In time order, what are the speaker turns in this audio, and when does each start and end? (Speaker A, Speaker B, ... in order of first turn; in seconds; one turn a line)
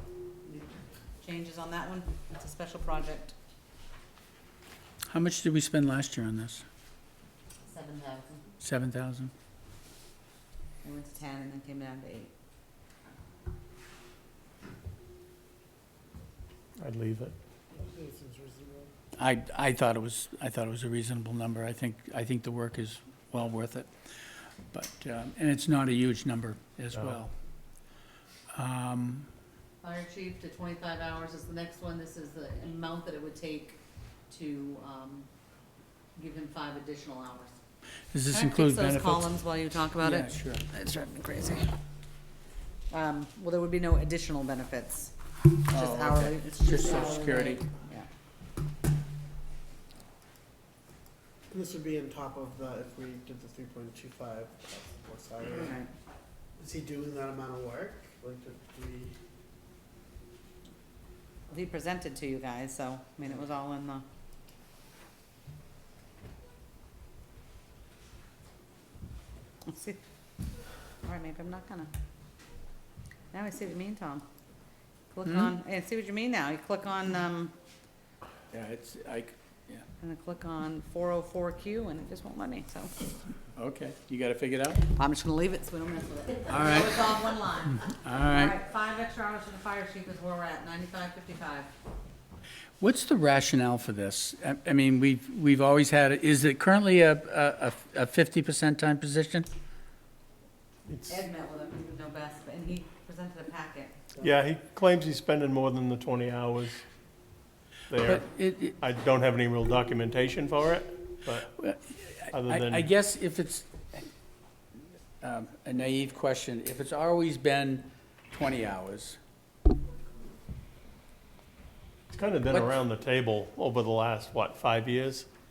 Speaker A: 0.4-3.4
Speaker B: 5.1-6.7
Speaker A: 7.7-8.4
Speaker B: 8.6-9.3
Speaker A: 10.8-12.3
Speaker C: 16.8-17.3
Speaker D: 17.7-18.9
Speaker B: 19.2-23.9
Speaker B: 24.7-27.3
Speaker B: 28.5-29.3
Speaker A: 29.8-35.3
Speaker A: 36.2-37.6
Speaker B: 38.1-39.3
Speaker A: 38.3-41.7
Speaker B: 40.0-40.6
Speaker A: 42.9-45.1
Speaker B: 45.7-47.7
Speaker A: 45.7-48.1
Speaker D: 51.5-55.8
Speaker A: 55.4-55.9
Speaker D: 56.6-59.1
Speaker A: 61.5-64.0
Speaker A: 69.7-70.0
Speaker A: 71.0-71.9
Speaker A: 73.3-74.2
Speaker A: 75.1-77.5
Speaker B: 75.2-75.5
Speaker B: 78.5-79.9
Speaker A: 80.0-83.0
Speaker B: 83.5-84.8
Speaker A: 84.9-91.7
Speaker B: 86.5-87.2
Speaker B: 87.8-88.5
Speaker B: 92.8-99.5
Speaker C: 100.9-101.2
Speaker A: 101.1-104.0
Speaker C: 104.2-106.8
Speaker C: 107.9-108.2
Speaker B: 108.0-108.8
Speaker C: 108.8-111.5
Speaker B: 111.5-114.1
Speaker C: 112.3-112.9
Speaker B: 115.2-119.2
Speaker C: 122.1-125.3